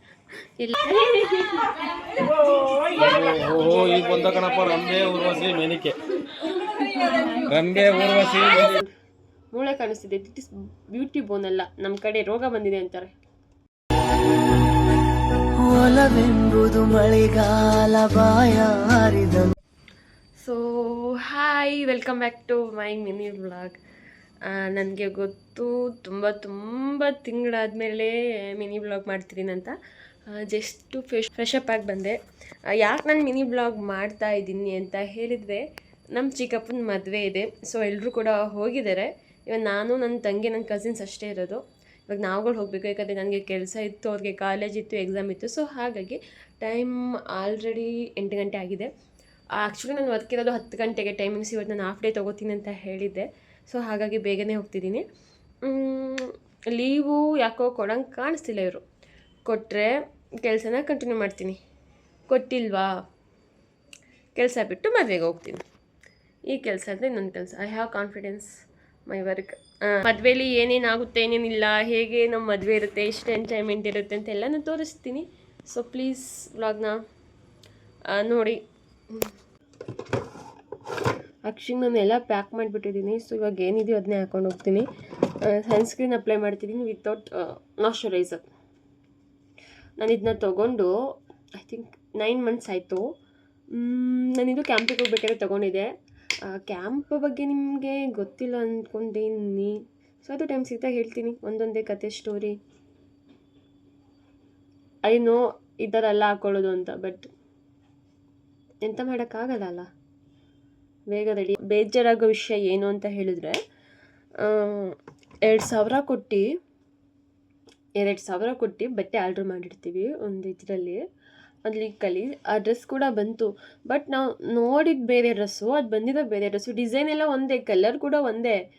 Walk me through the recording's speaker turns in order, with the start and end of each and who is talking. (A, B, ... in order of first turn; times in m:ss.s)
0:00.6-0:01.7 A
0:03.0-0:06.0 B
0:07.0-0:07.4 A
0:07.4-0:08.8 B
0:08.0-0:08.9 A
0:09.5-0:13.1 A
0:15.6-0:19.5 C
0:20.4-0:23.8 A
0:24.5-0:29.7 A
0:30.3-0:32.2 A
0:32.8-0:35.6 A
0:36.1-0:48.9 A
0:49.6-0:55.0 A
0:55.6-0:58.8 A
0:59.4-0:59.9 A
1:00.4-1:01.6 A
1:02.3-1:02.9 A
1:04.3-1:05.6 A
1:06.5-1:08.5 A
1:09.1-1:17.0 A
1:18.2-1:18.6 A
1:21.5-1:24.8 A
1:25.4-1:28.4 A
1:30.0-1:30.9 A
1:31.6-1:33.0 A
1:33.7-1:35.9 A
1:36.5-1:42.6 A
1:45.1-1:47.3 A
1:48.8-1:49.8 A
1:51.1-1:53.6 A
1:54.4-1:56.4 A
1:58.0-2:01.0 A
2:01.6-2:08.6 A